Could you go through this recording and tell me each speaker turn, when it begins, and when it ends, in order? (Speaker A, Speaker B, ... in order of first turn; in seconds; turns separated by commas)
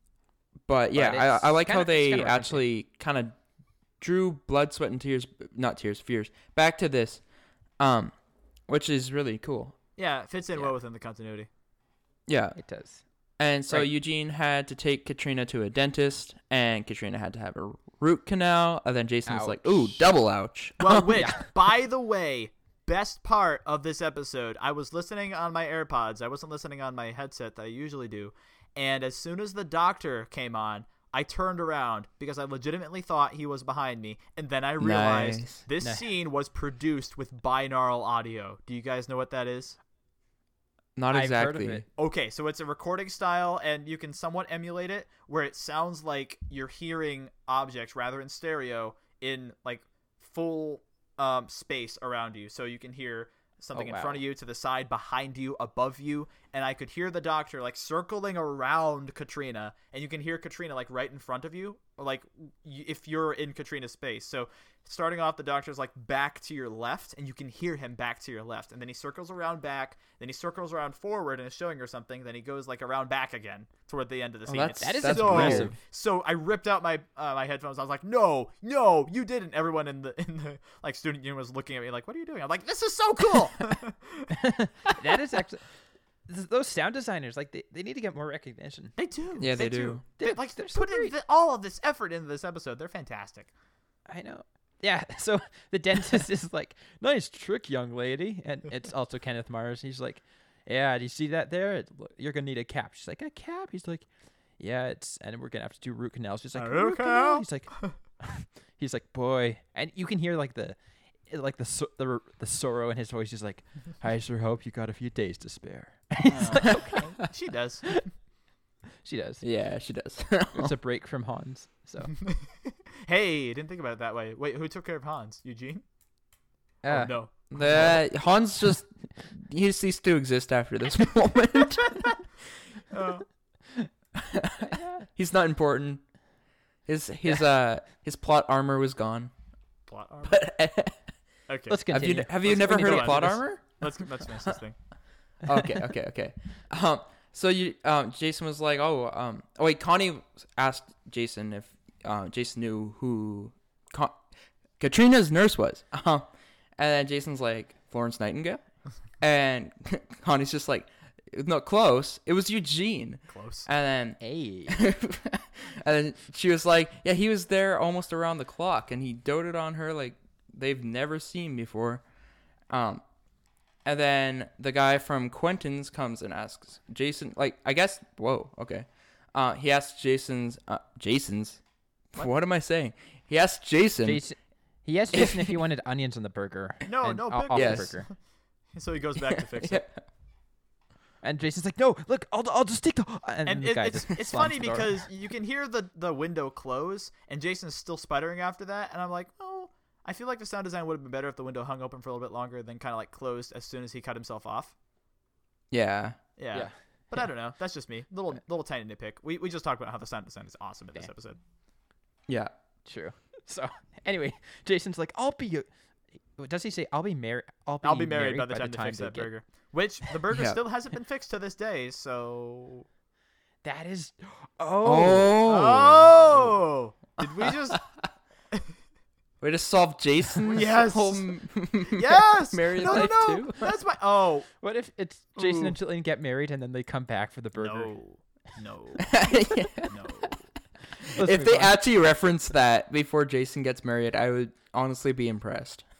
Speaker A: 0.7-3.4, Speaker B: 0.9-2.6, Speaker A: 4.0-7.2, Speaker A: 7.8-8.1, Speaker A: 8.7-9.8, Speaker C: 10.0-11.5, Speaker A: 12.3-12.6, Speaker B: 12.6-13.0, Speaker A: 13.4-21.3, Speaker B: 19.3-20.1, Speaker C: 20.8-39.8, Speaker B: 21.1-21.5, Speaker A: 34.8-35.6, Speaker B: 35.8-36.0, Speaker A: 41.0-41.9, Speaker B: 41.1-41.8, Speaker C: 42.0-84.3, Speaker B: 53.7-54.2, Speaker A: 74.5-75.7, Speaker B: 74.7-75.8, Speaker B: 84.3-85.6, Speaker B: 86.3-88.9, Speaker C: 89.0-93.5, Speaker A: 89.4-90.0, Speaker B: 90.2-91.1, Speaker B: 94.1-104.0, Speaker B: 104.6-117.2, Speaker C: 106.5-107.9, Speaker C: 116.3-118.1, Speaker B: 119.0-119.4, Speaker A: 119.4-120.7, Speaker B: 120.5-122.1, Speaker C: 122.2-125.8, Speaker B: 126.8-127.1, Speaker C: 126.9-128.0, Speaker A: 127.5-132.1, Speaker C: 132.9-133.2, Speaker A: 134.2-136.0, Speaker B: 134.7-135.0, Speaker A: 136.8-139.3, Speaker C: 139.9-140.4, Speaker A: 140.2-141.0, Speaker C: 141.5-144.8, Speaker B: 141.7-143.4, Speaker A: 141.9-143.8, Speaker A: 145.5-154.2, Speaker A: 154.8-158.6, Speaker A: 159.2-172.0, Speaker C: 163.3-163.7, Speaker B: 164.2-164.8, Speaker A: 172.7-173.0, Speaker A: 173.8-181.6, Speaker A: 182.1-184.2, Speaker B: 184.0-188.1, Speaker A: 185.1-185.6, Speaker C: 186.9-188.1, Speaker A: 187.5-187.9, Speaker C: 188.7-189.8, Speaker A: 189.3-190.0, Speaker B: 191.2-195.0, Speaker C: 193.4-204.7, Speaker A: 205.7-206.2, Speaker C: 206.4-211.4, Speaker B: 206.5-207.2, Speaker B: 212.8-215.7, Speaker B: 216.3-219.3, Speaker C: 217.8-222.8, Speaker A: 220.3-220.6, Speaker B: 223.6-225.5, Speaker A: 224.8-226.1, Speaker C: 225.3-227.8, Speaker B: 226.2-226.5, Speaker A: 227.4-227.8, Speaker A: 229.4-233.7, Speaker C: 230.5-231.3, Speaker C: 231.8-234.5, Speaker B: 234.6-237.9, Speaker C: 235.4-235.7, Speaker C: 237.6-239.2, Speaker A: 239.1-239.9, Speaker C: 239.9-240.4, Speaker B: 241.0-241.8, Speaker A: 241.1-245.9